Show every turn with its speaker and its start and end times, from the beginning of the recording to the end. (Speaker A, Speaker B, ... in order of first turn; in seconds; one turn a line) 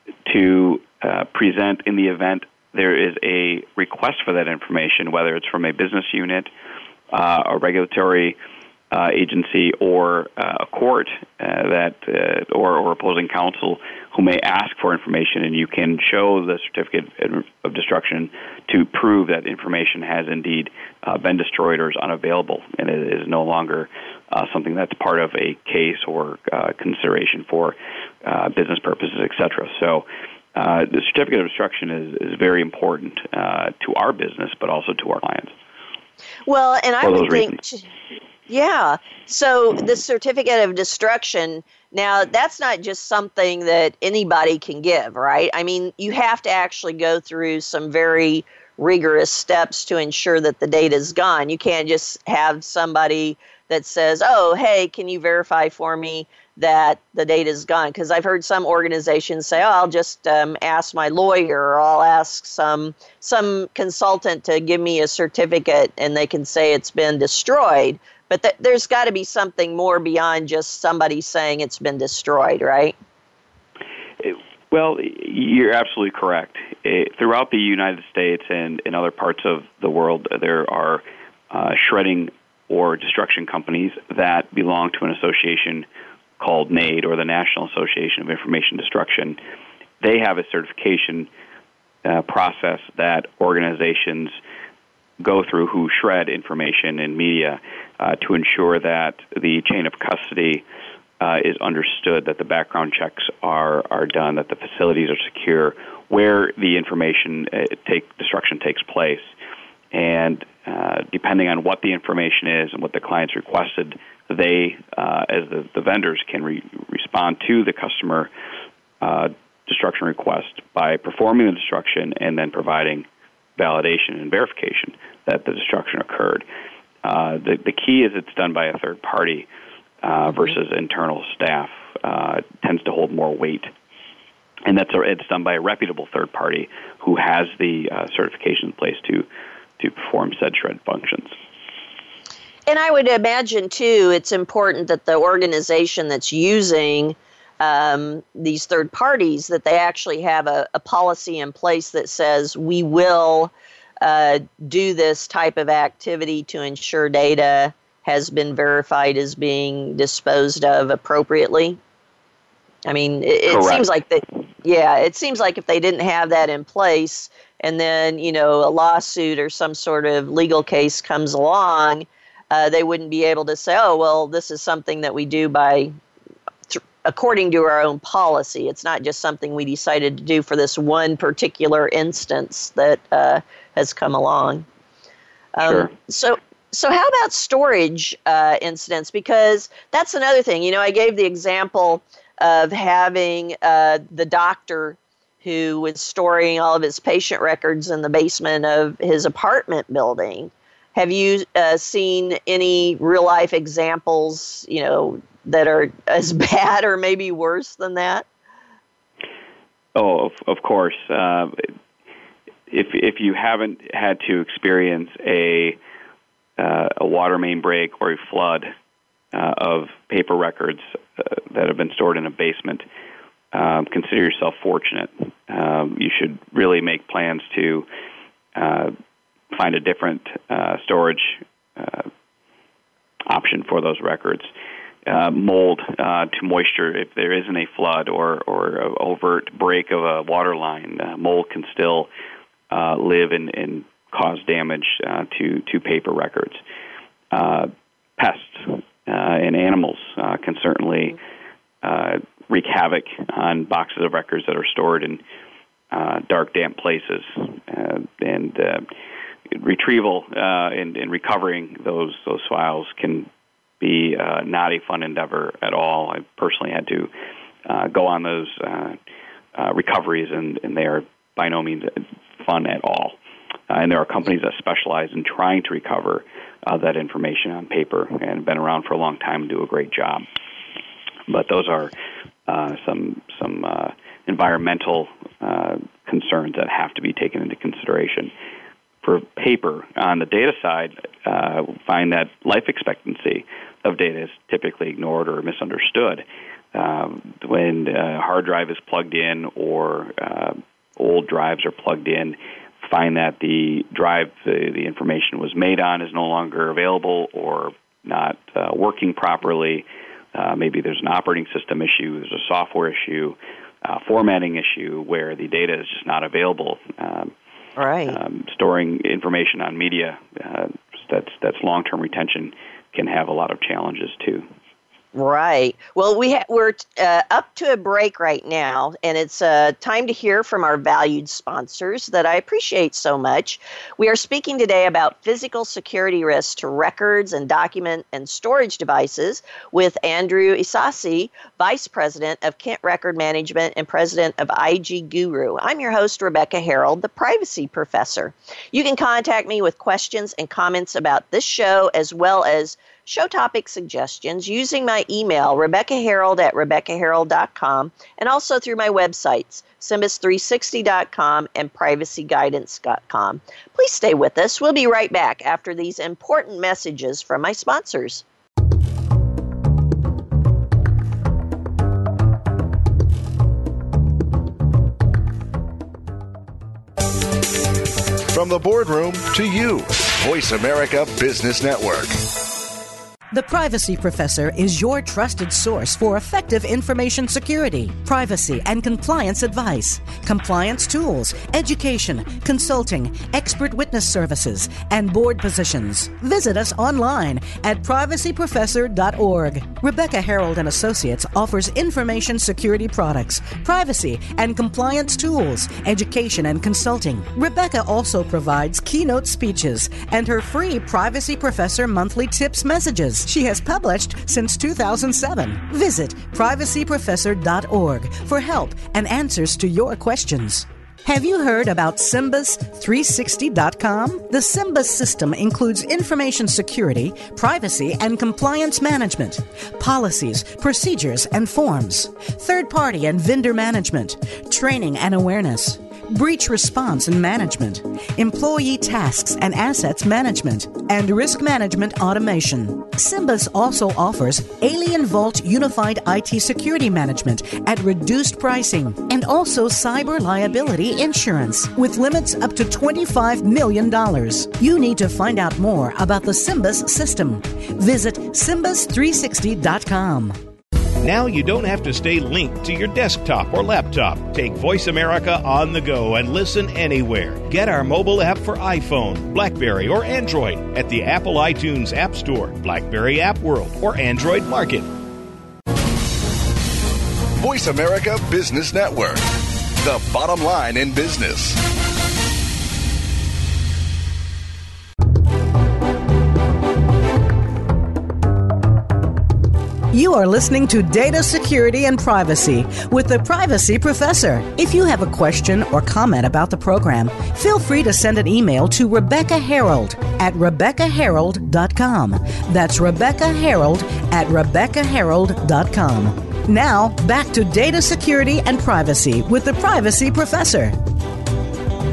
Speaker A: 0.2-6.5
Speaker A: 7.1-8.3
Speaker A: 8.9-35.5
Speaker B: 36.5-37.8
Speaker A: 37.0-37.6
Speaker B: 38.5-73.0
Speaker A: 74.2-85.8
Speaker A: 86.4-89.4
Speaker A: 90.0-91.3
Speaker A: 92.0-94.3
Speaker A: 95.2-100.6
Speaker A: 101.2-109.3
Speaker A: 109.9-118.3
Speaker A: 119.0-123.0
Speaker A: 123.6-126.4
Speaker A: 127.0-129.5
Speaker A: 130.0-133.7
Speaker B: 130.3-130.5
Speaker A: 134.7-139.2
Speaker A: 139.8-141.3
Speaker B: 142.7-161.8
Speaker B: 162.8-175.9
Speaker A: 163.5-163.9
Speaker B: 176.7-184.6
Speaker B: 185.6-208.2
Speaker A: 185.6-185.9
Speaker A: 209.9-211.7
Speaker A: 212.7-215.8
Speaker A: 216.6-218.7
Speaker A: 219.3-222.8
Speaker A: 223.5-227.8
Speaker A: 228.5-228.9
Speaker A: 229.5-232.1
Speaker A: 233.3-234.5
Speaker A: 235.1-242.1
Speaker A: 242.7-246.6
Speaker A: 247.3-251.2
Speaker A: 251.8-255.2
Speaker A: 255.9-258.9
Speaker A: 259.5-263.3
Speaker A: 263.8-267.1
Speaker A: 267.6-269.0
Speaker A: 269.5-273.1
Speaker A: 273.7-280.2
Speaker A: 281.3-281.9
Speaker A: 282.5-288.3
Speaker A: 289.0-296.2
Speaker A: 296.7-317.3
Speaker B: 317.8-318.2
Speaker A: 318.1-324.4
Speaker B: 325.1-368.2
Speaker C: 378.3-382.2
Speaker D: 383.3-460.4
Speaker E: 461.0-474.9
Speaker C: 477.4-479.2
Speaker C: 479.8-481.6
Speaker D: 489.9-510.8